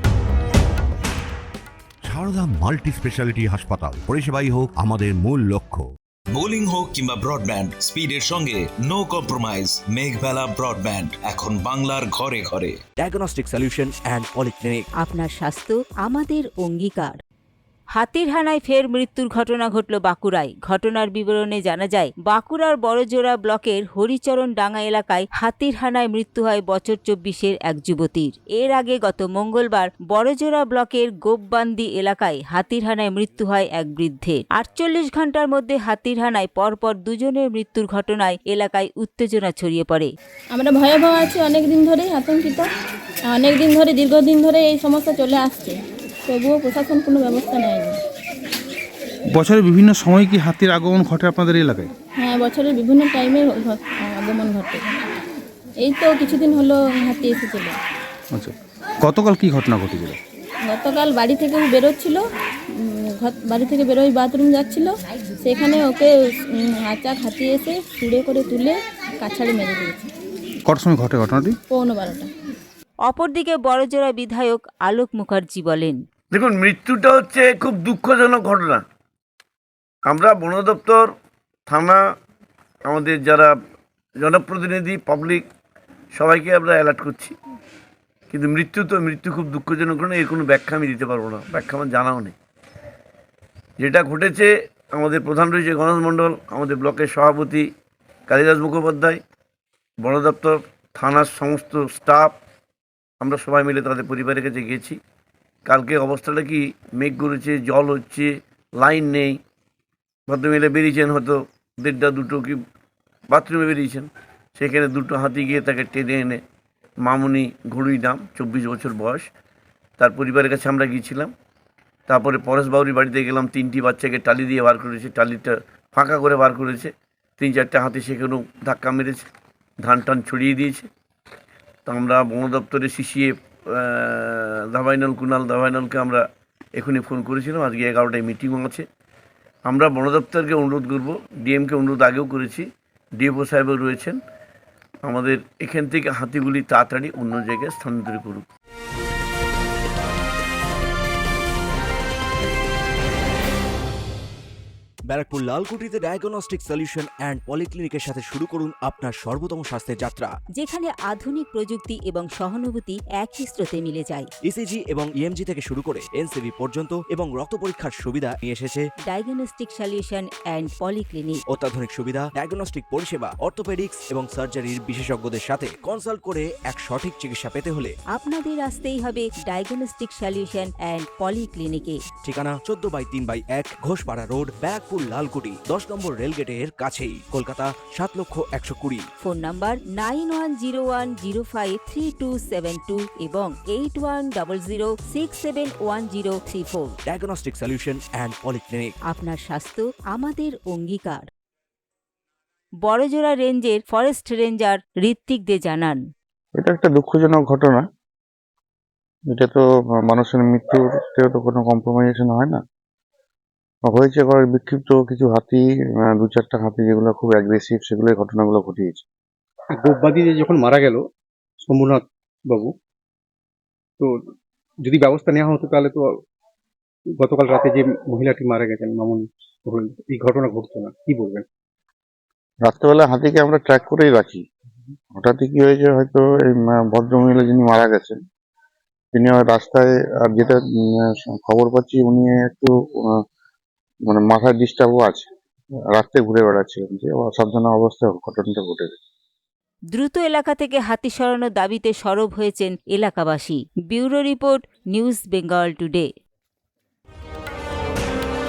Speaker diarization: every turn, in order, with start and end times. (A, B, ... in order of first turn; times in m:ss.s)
0:02.0-0:05.9 A
0:06.3-0:12.8 B
0:13.0-0:14.8 C
0:15.0-0:17.2 D
0:17.9-0:40.1 D
0:40.5-0:42.7 E
0:43.3-0:48.0 E
0:49.3-0:51.9 F
0:52.2-0:54.8 E
0:55.8-0:57.8 E
0:58.3-1:00.2 F
1:00.6-1:10.1 E
1:10.7-1:11.6 F
1:11.7-1:12.3 E
1:13.1-1:16.0 D
1:16.3-1:18.8 G
1:20.1-1:21.1 G
1:21.7-1:22.0 G
1:22.9-1:23.5 G
1:24.2-1:25.4 G
1:26.2-1:27.4 G
1:28.3-1:32.3 G
1:33.8-1:37.7 G
1:38.3-1:39.2 G
1:40.0-1:42.3 G
1:43.2-1:45.0 G
1:45.7-1:49.4 G
1:50.3-1:52.6 G
1:53.3-1:56.4 G
1:57.0-1:59.3 G
2:00.0-2:01.3 G
2:02.1-2:09.2 G
2:09.8-2:10.9 G
2:11.9-2:16.2 G
2:16.8-2:18.8 G
2:19.7-2:22.7 G
2:23.2-2:24.2 G
2:25.0-2:28.4 G
2:35.1-2:40.3 C
2:40.6-2:44.3 D
2:44.4-2:48.8 C
2:49.1-2:51.4 D
2:51.5-2:57.9 C
2:58.1-3:02.0 D
3:02.2-3:09.0 C
3:09.2-3:17.0 D
3:17.0-3:18.9 C
3:19.1-3:21.3 D
3:22.8-3:26.0 D
3:26.6-3:27.8 H
3:29.3-3:32.6 H
3:33.8-3:39.0 H
3:39.7-3:41.0 I
3:41.6-3:42.7 I
3:44.8-3:46.1 I
3:47.2-3:51.4 I
3:52.6-3:54.4 H
3:55.2-3:58.2 H
3:59.1-4:03.1 H
4:04.1-4:05.3 H
4:05.9-4:08.9 H
4:09.9-4:16.1 D